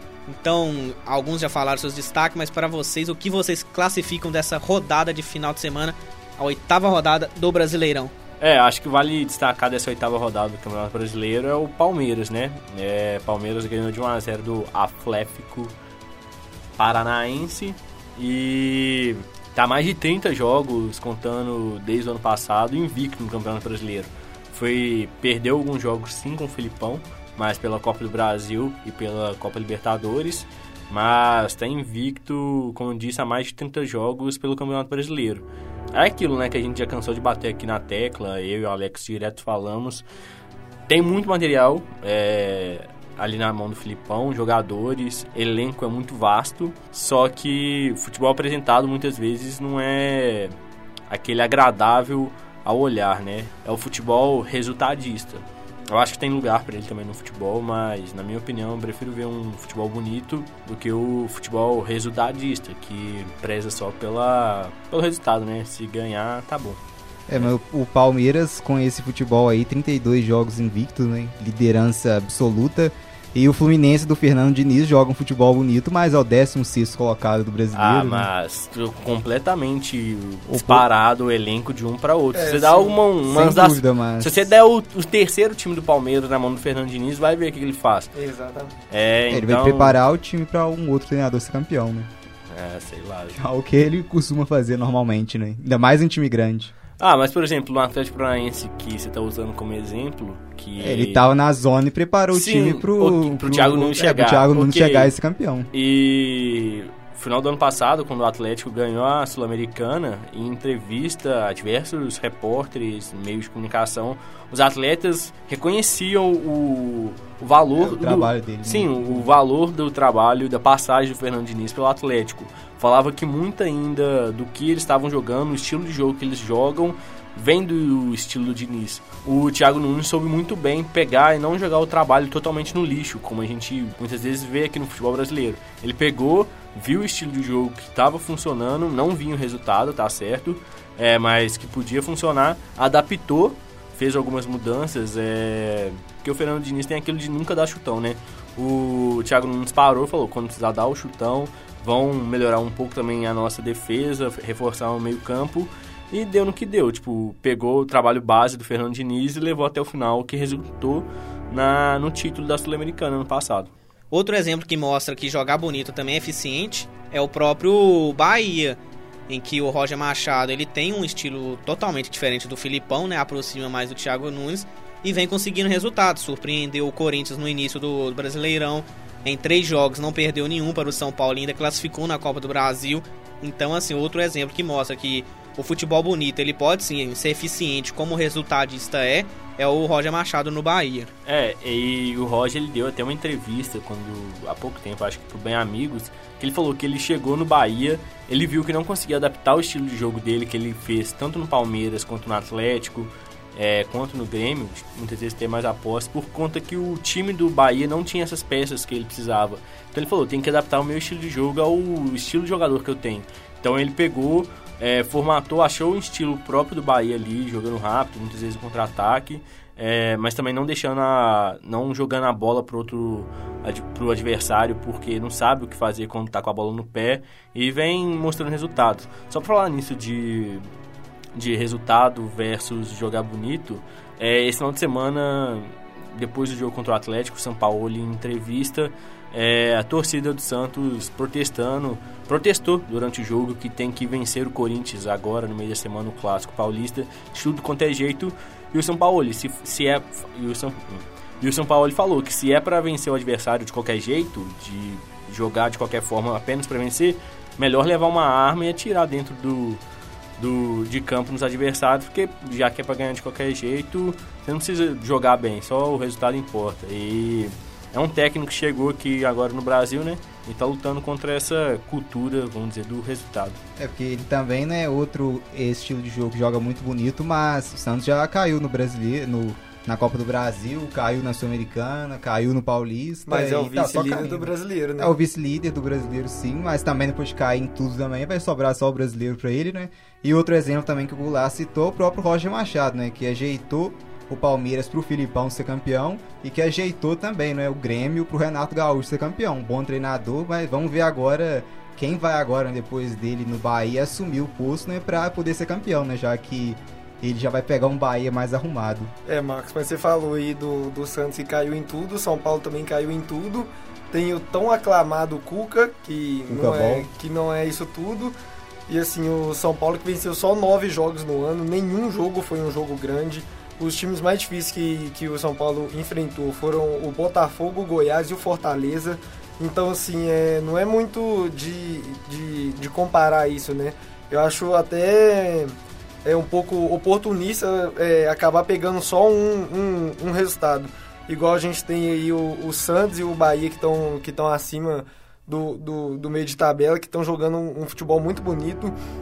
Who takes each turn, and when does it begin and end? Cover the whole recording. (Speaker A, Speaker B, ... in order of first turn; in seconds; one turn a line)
Speaker A: 0.2-8.1
Speaker B: 8.4-15.7
Speaker B: 16.8-40.0
Speaker B: 40.9-50.5
Speaker B: 51.1-66.8
Speaker C: 67.3-78.3
Speaker B: 77.7-88.1
Speaker C: 80.5-80.8
Speaker D: 82.3-83.0
Speaker C: 83.2-84.5
Speaker D: 88.1-88.8
Speaker B: 88.9-90.0
Speaker C: 89.3-92.1
Speaker B: 92.5-93.4
Speaker C: 93.3-96.7
Speaker B: 97.0-101.2
Speaker C: 100.8-105.7
Speaker B: 102.3-105.1
Speaker B: 105.7-163.7
Speaker C: 117.8-119.3
Speaker A: 164.1-191.1
Speaker B: 191.2-230.7
Speaker B: 231.3-259.8
Speaker B: 260.4-273.6
Speaker C: 273.8-309.1
Speaker D: 283.3-285.1
Speaker D: 309.2-318.4
Speaker C: 316.5-317.1
Speaker D: 318.9-348.9